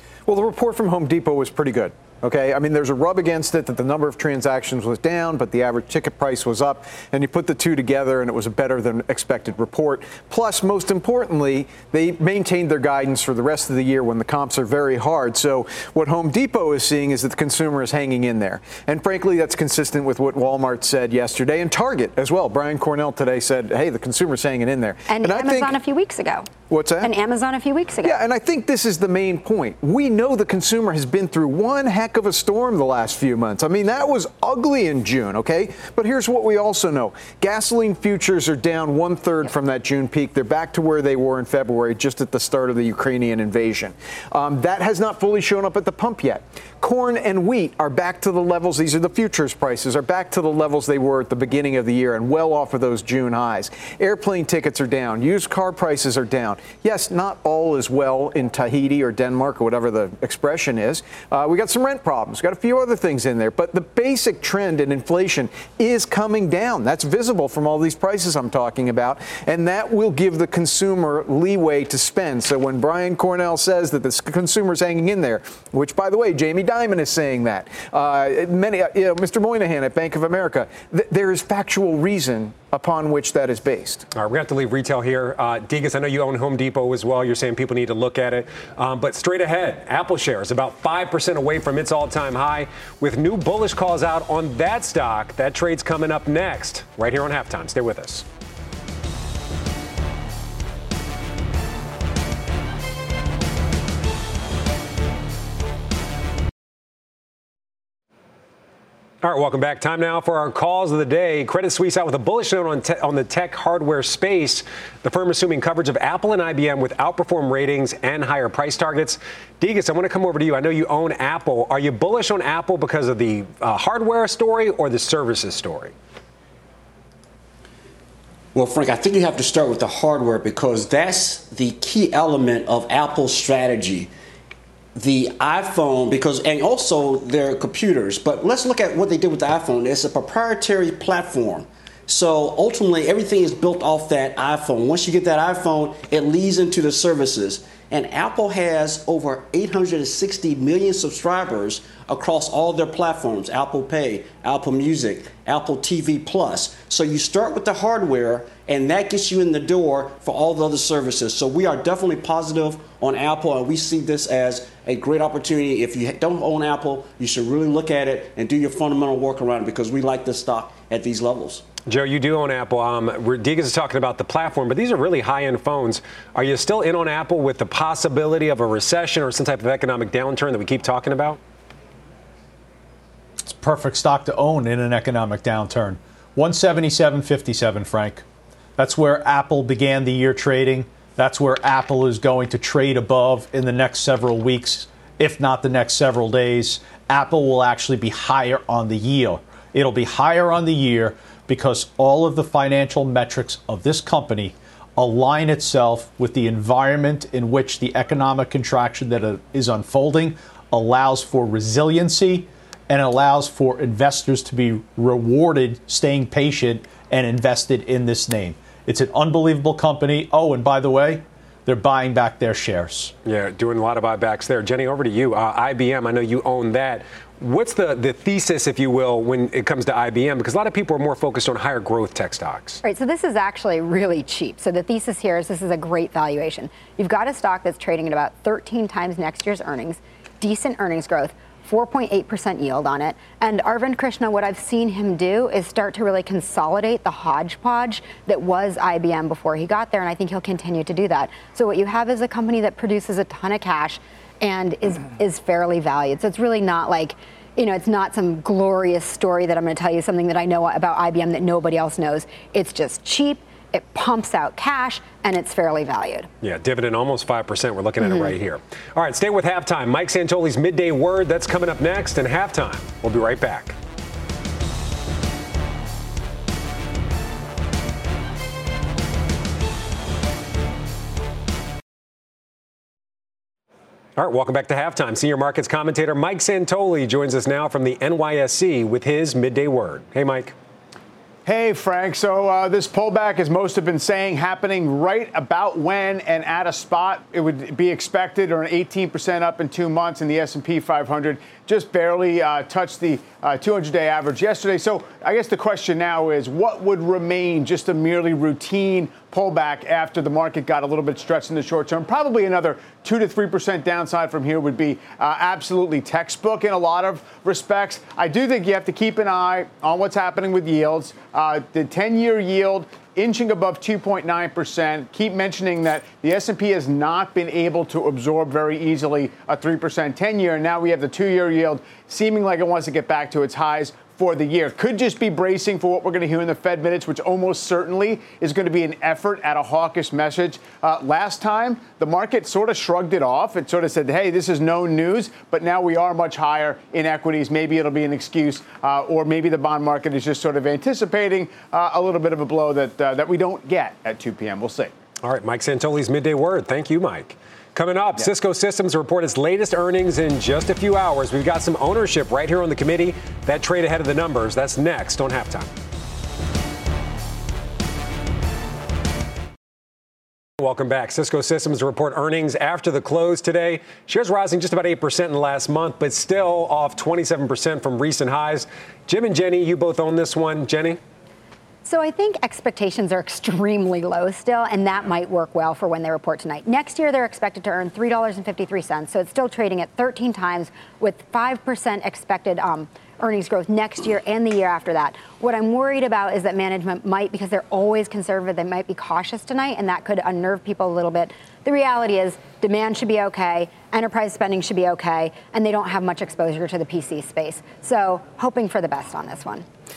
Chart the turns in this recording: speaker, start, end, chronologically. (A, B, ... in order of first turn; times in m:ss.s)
0:00.3-0:25.8 A
0:25.1-0:28.2 B
0:26.7-0:27.1 A
0:28.0-1:24.0 A
1:24.1-1:38.2 C
1:49.2-2:05.9 C
2:08.5-2:14.1 D
2:15.0-2:51.6 D
2:51.9-3:01.4 C
3:03.5-3:08.2 E
3:08.8-3:43.1 E
3:43.2-3:52.8 C
3:52.8-4:26.3 B
4:26.4-4:33.8 C
4:28.0-4:28.3 B
4:44.2-4:50.5 C
4:51.4-5:54.9 F
5:55.2-6:05.7 C
6:10.6-6:21.0 C
6:21.8-6:49.6 B